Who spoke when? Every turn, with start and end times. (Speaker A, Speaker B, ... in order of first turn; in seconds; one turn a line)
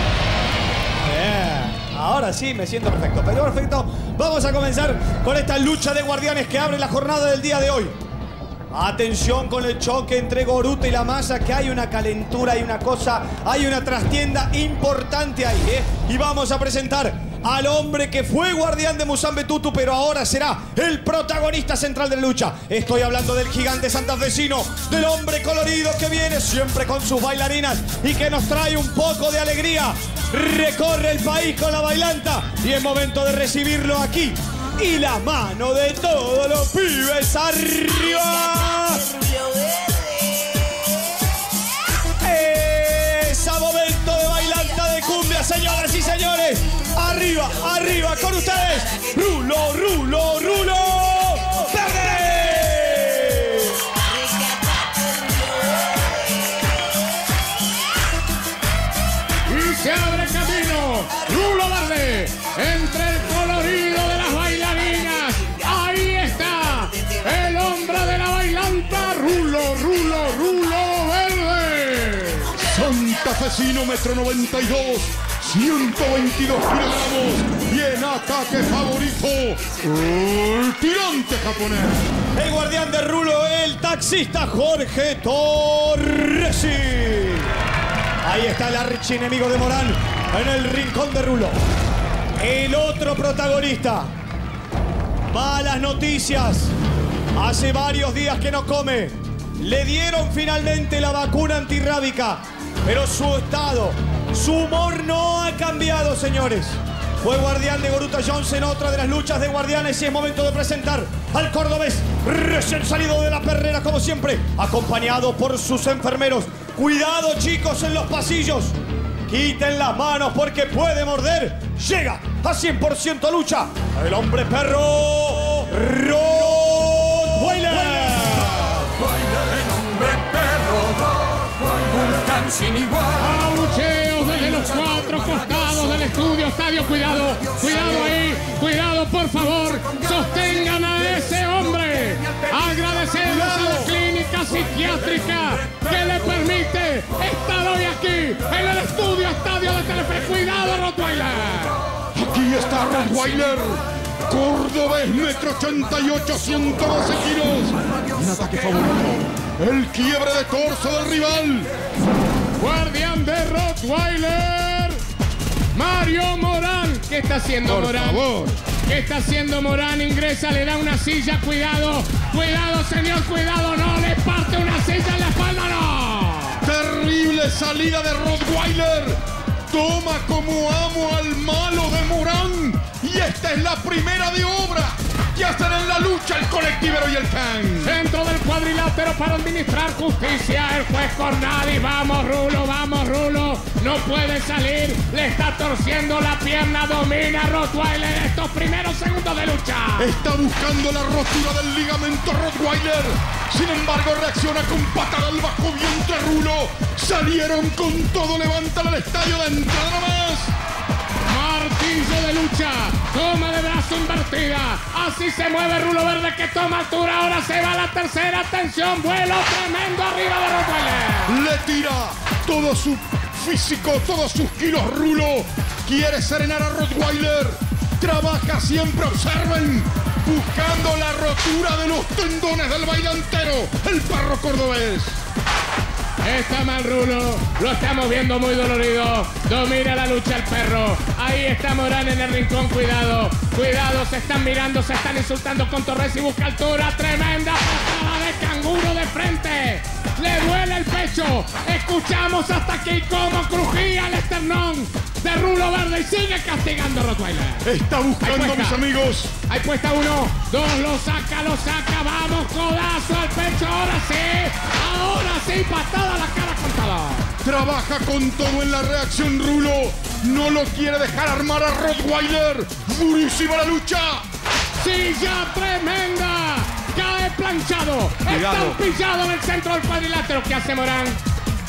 Speaker A: 1.0-7.9
Speaker A: 8.7-39.1
Speaker A: 42.2-53.8
Speaker B: 59.5-72.5
Speaker C: 72.5-82.0
Speaker A: 82.3-87.5
Speaker A: 88.2-91.5
Speaker A: 92.4-94.1
Speaker A: 95.3-96.7
Speaker A: 97.3-118.8
Speaker A: 119.3-128.9
Speaker C: 132.4-132.8
Speaker B: 133.1-151.8
Speaker C: 143.2-143.9
Speaker C: 152.1-161.7
Speaker B: 162.6-165.0
Speaker B: 165.7-168.2
Speaker C: 167.6-168.6
Speaker B: 168.9-176.6
Speaker C: 176.6-188.0
Speaker B: 187.8-200.2
Speaker C: 200.0-210.5
Speaker B: 211.2-221.4
Speaker C: 221.3-235.2
Speaker B: 236.2-257.7
Speaker C: 257.6-259.4
Speaker B: 258.2-258.8
Speaker B: 259.5-267.3
Speaker C: 267.4-274.2
Speaker B: 274.8-281.2
Speaker C: 278.3-278.8